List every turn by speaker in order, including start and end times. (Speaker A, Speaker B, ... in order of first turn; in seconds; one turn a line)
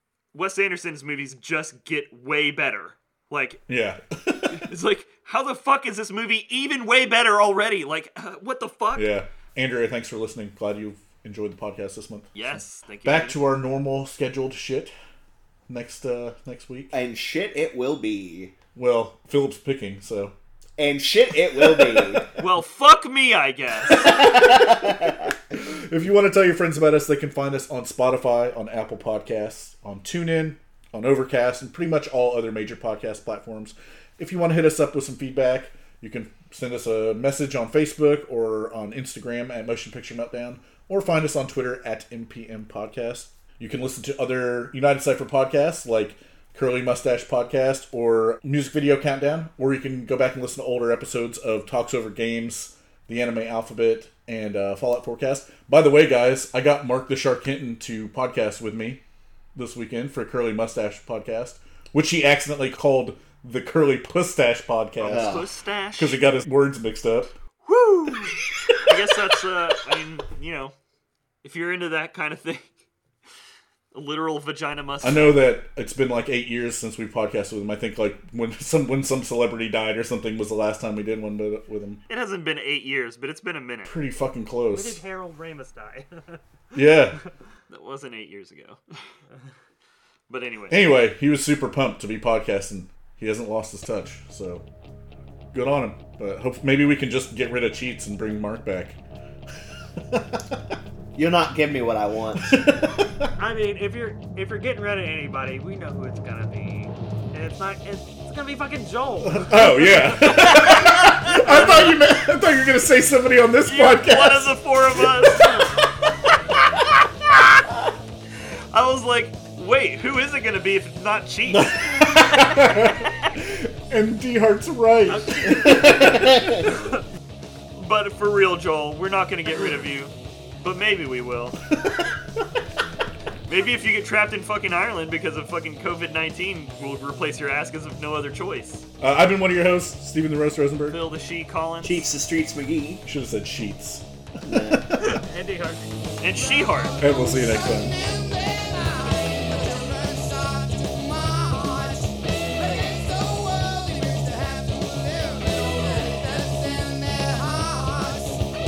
Speaker A: 0.3-3.6
Speaker B: 3.7-4.6
Speaker A: 4.5-9.1
Speaker B: 8.9-14.9
Speaker A: 12.3-13.4
Speaker B: 15.7-16.9
Speaker C: 16.9-18.5
Speaker B: 18.7-20.3
Speaker C: 20.8-22.3
Speaker B: 21.6-22.4
Speaker A: 22.4-24.3
Speaker C: 23.9-25.3
Speaker B: 24.0-59.0
Speaker B: 59.5-67.3
Speaker A: 65.0-66.2
Speaker C: 65.0-65.5
Speaker A: 67.6-70.7
Speaker A: 71.4-72.7
Speaker A: 73.9-75.4
Speaker B: 75.0-82.0
Speaker A: 82.1-83.9
Speaker B: 83.9-85.0
Speaker D: 84.7-86.4
Speaker B: 86.7-87.2
Speaker A: 87.7-88.8
Speaker A: 90.3-90.8
Speaker B: 90.7-94.6
Speaker B: 95.5-99.0
Speaker B: 100.0-100.4
Speaker C: 101.2-102.7
Speaker B: 102.4-103.3
Speaker D: 103.4-111.8
Speaker B: 109.2-115.7
Speaker A: 113.6-115.5
Speaker A: 118.7-123.3
Speaker B: 121.5-126.8
Speaker D: 125.1-125.9
Speaker C: 125.6-126.7
Speaker A: 127.7-131.6
Speaker A: 133.5-138.8
Speaker B: 139.0-141.0
Speaker A: 140.9-142.1
Speaker C: 141.8-143.0
Speaker B: 143.0-145.2
Speaker C: 144.4-145.1
Speaker D: 144.9-146.9
Speaker A: 146.2-146.9
Speaker E: 147.0-158.4
Speaker B: 147.0-147.9